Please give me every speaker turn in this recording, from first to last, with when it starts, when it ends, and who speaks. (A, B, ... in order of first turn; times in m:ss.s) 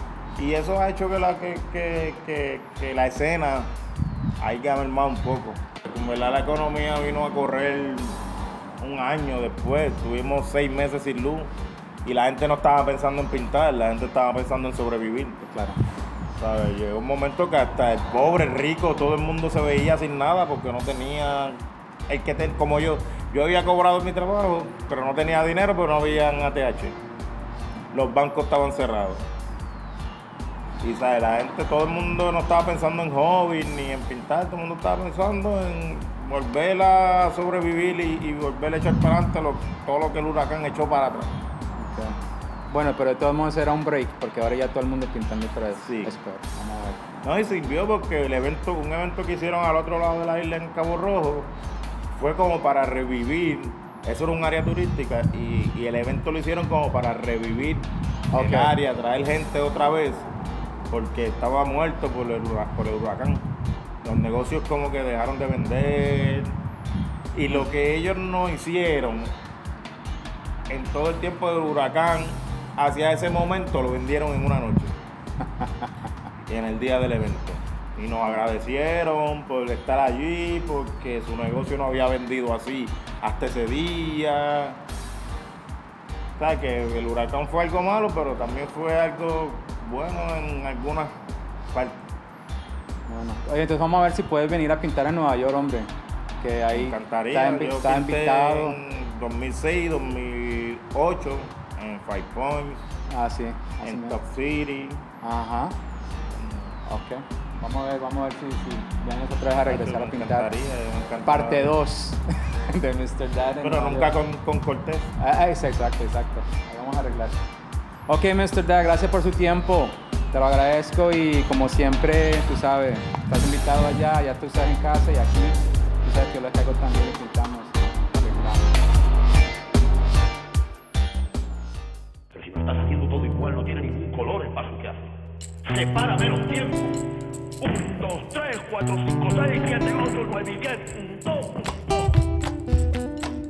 0:00.4-0:03.7 A
0:04.4-0:08.2 A
0:08.8-0:11.5 A
0:12.0-0:15.4 A
0:15.4-0:15.8 B
0:16.4-0:27.0 A
0:27.9-0:29.2 A
0:30.8-0:41.4 A
0:41.7-0:42.2 B
0:42.7-0:47.0 B
0:45.8-0:46.1 A
0:47.2-0:51.5 A
0:52.2-1:00.3 A
0:58.3-0:58.7 B
1:00.9-1:03.4 A
1:04.0-1:06.5 A
1:07.3-1:09.3 A
1:10.7-1:14.9 A
1:15.6-1:15.9 B
1:16.5-1:24.8 A
1:26.4-1:31.1 A
1:31.7-1:32.0 A
1:33.1-1:38.8 B
1:36.7-1:42.8 A
1:43.1-1:44.2 B
1:43.8-1:45.0 A
1:45.2-1:45.8 B
1:46.3-1:46.7 A
1:46.8-1:50.5 B
1:49.6-1:51.8 A
1:51.2-1:54.2 B
1:53.6-1:55.1 A
1:55.2-1:57.4 B
1:58.1-2:08.7 B
2:12.3-2:15.1 C
2:15.7-2:17.0 C
2:17.6-2:22.1 C